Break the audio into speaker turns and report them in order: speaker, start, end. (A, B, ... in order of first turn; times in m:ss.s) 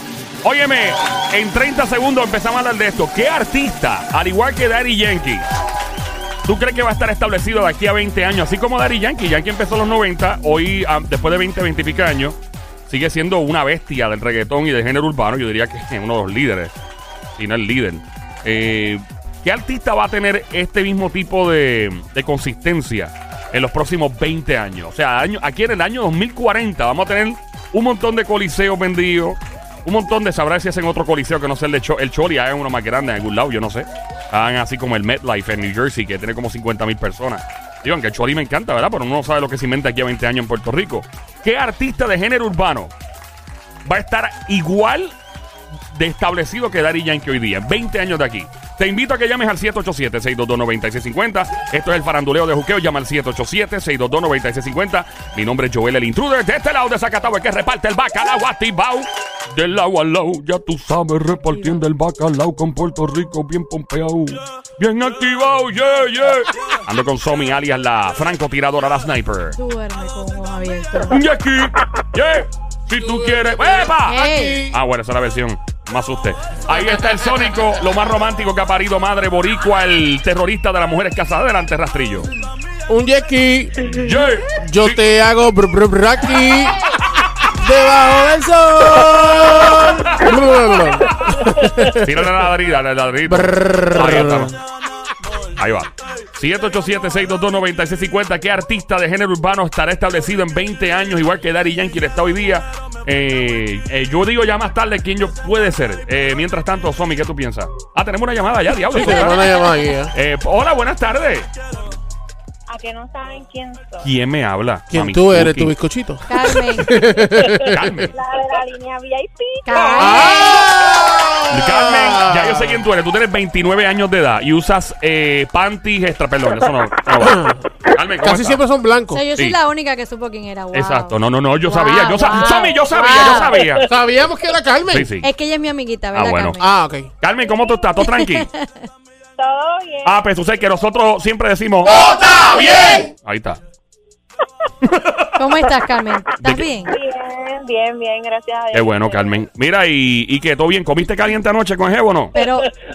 0:00.4-0:05.5 A
0:06.4-0:16.7 A
0:17.4-0:42.9 A
0:43.8-0:45.2 A
0:45.9-1:09.6 A
1:01.5-1:01.8 B
1:09.6-1:11.2 B
1:11.1-1:22.3 A
1:14.1-1:14.6 B
1:14.1-1:14.8 C
1:22.9-1:23.9 C
1:23.8-1:25.0 A
1:24.5-1:26.8 C
1:27.6-1:32.3 C
1:29.4-1:34.5 A
1:33.3-1:34.5 C
1:35.6-1:51.5 A
1:48.9-1:50.1 C
1:52.7-1:54.1 D
1:54.0-1:55.7 A
1:54.9-1:57.9 C
1:56.3-1:56.9 B
1:57.5-1:58.1 A
1:58.1-2:01.4 D
1:59.6-2:01.2 B
1:59.7-2:00.6 A
2:00.0-2:02.8 C
2:01.5-2:08.6 A
2:07.2-2:09.2 C
2:09.1-2:13.7 B
2:10.7-2:13.9 A
2:13.8-2:15.1 C
2:14.9-2:15.3 A
2:15.2-2:16.7 B
2:16.1-2:16.6 A
2:16.6-2:17.1 C
2:17.2-2:18.5 A
2:17.5-2:17.9 D
2:18.0-2:18.8 B
2:19.4-2:20.3 D
2:20.0-2:23.6 A
2:24.9-2:25.2 A
2:25.4-2:27.0 B
2:26.4-2:26.7 A
2:26.9-2:29.4 D
2:28.7-2:32.4 A
2:32.3-2:32.7 B